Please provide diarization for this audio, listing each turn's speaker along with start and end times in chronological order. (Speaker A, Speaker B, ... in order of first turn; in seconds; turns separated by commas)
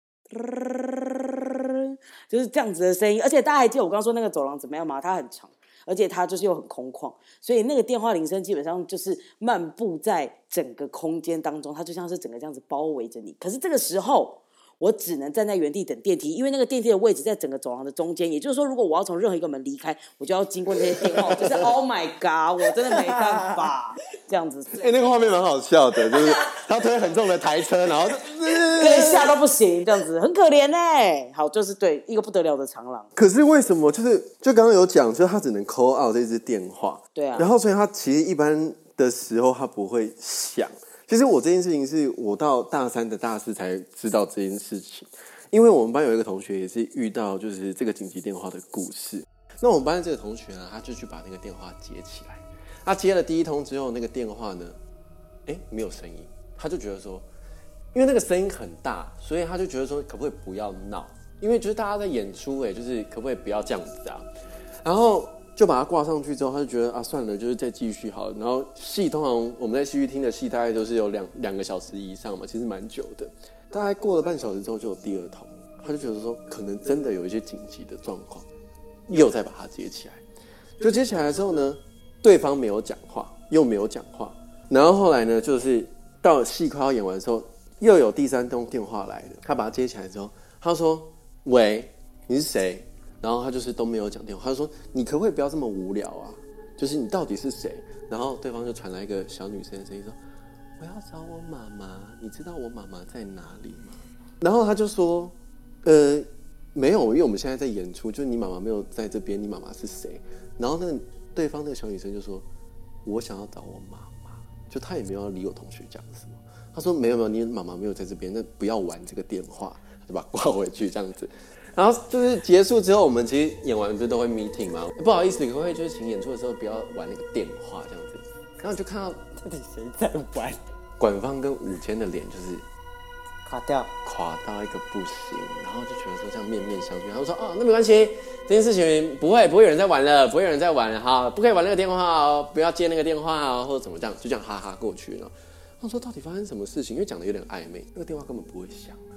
Speaker A: 0.3-24.9, Speaker B: 21.0-21.7, Speaker C: 22.9-23.4, Speaker B: 24.7-29.4, Speaker A: 28.8-33.1, Speaker B: 33.1-54.8, Speaker A: 37.1-37.5, Speaker B: 55.5-57.2, Speaker B: 57.9-64.2, Speaker B: 64.8-78.5, Speaker B: 79.1-80.2, Speaker B: 80.8-100.2, Speaker B: 100.8-112.5, Speaker B: 113.0-129.2, Speaker C: 129.4-130.6, Speaker B: 131.0-132.7, Speaker C: 133.4-133.9, Speaker B: 134.0-149.0